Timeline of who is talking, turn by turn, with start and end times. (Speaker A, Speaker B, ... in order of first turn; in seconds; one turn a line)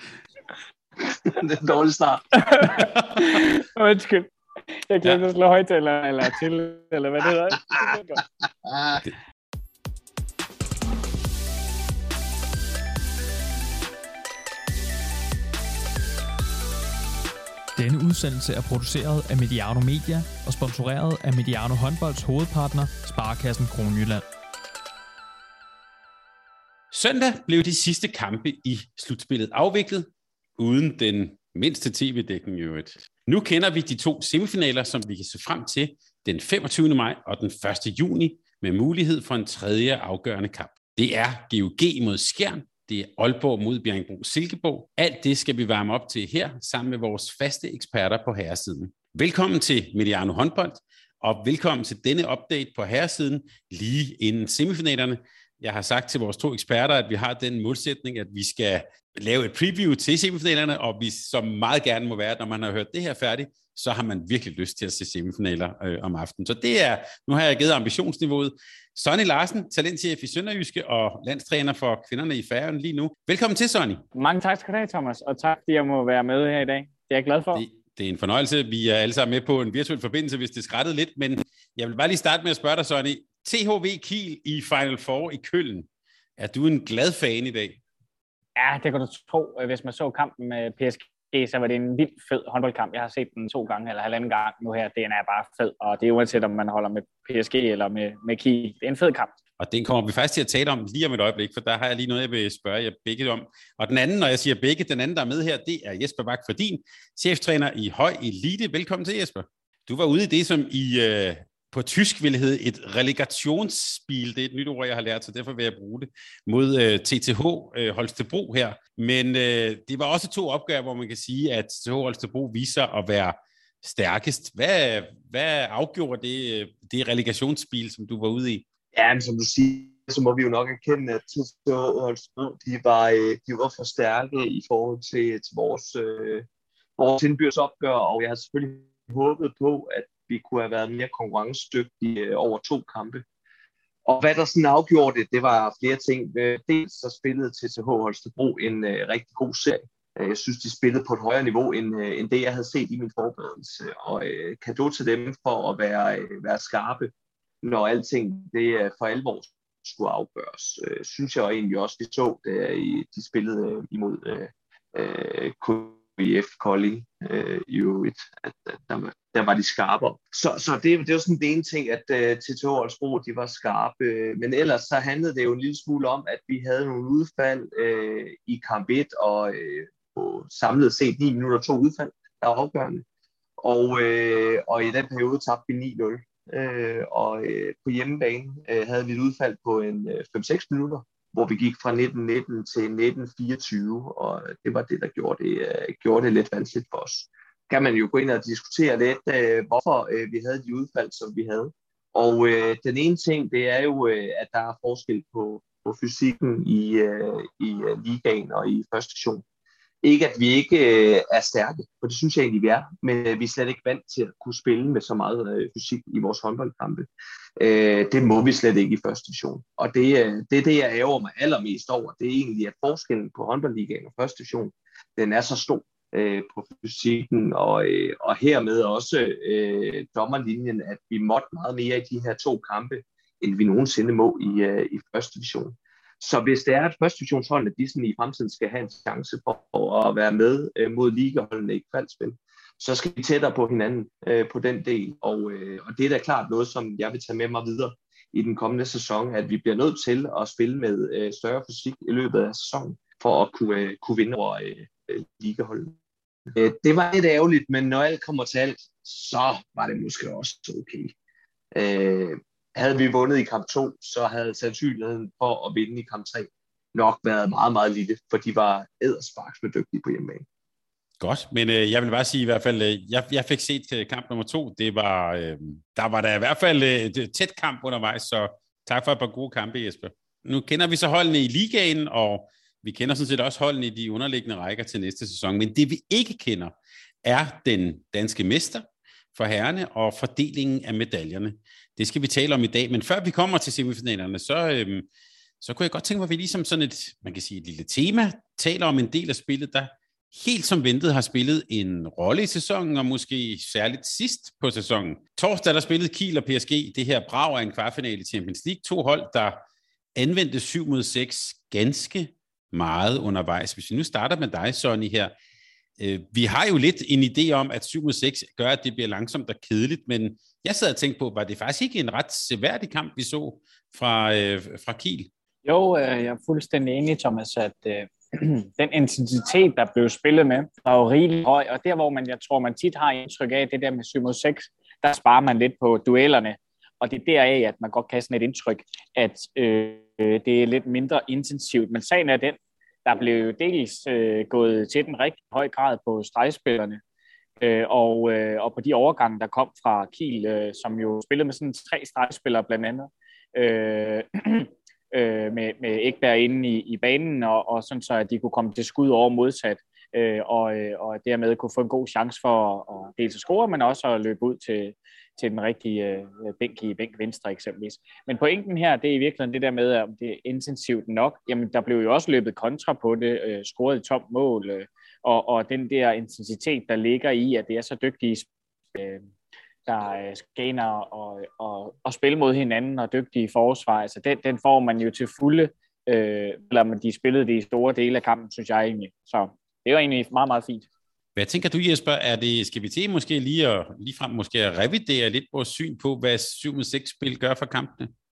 Speaker A: 1.0-2.3
Speaker B: 2.4-4.3
Speaker C: 2.6-3.4
Speaker B: 4.9-8.2
Speaker A: 8.7-9.0
Speaker D: 17.8-24.2
Speaker C: 26.9-74.0
Speaker B: 74.1-77.6
Speaker C: 77.5-85.9
Speaker C: 86.4-87.8
Speaker B: 88.5-99.3
Speaker C: 99.6-128.6
Speaker A: 128.9-136.4
Speaker A: 137.0-143.2
Speaker A: 144.1-157.1
Speaker A: 157.6-183.0
Speaker A: 183.6-209.4
Speaker A: 210.0-255.9
Speaker A: 256.5-261.1
Speaker A: 261.7-270.4
Speaker C: 271.2-295.1
Speaker C: 295.6-309.6
Speaker C: 310.1-315.3
Speaker C: 316.0-325.3
Speaker B: 325.6-347.0
Speaker B: 347.6-379.2
Speaker B: 379.9-390.9
Speaker C: 391.4-398.1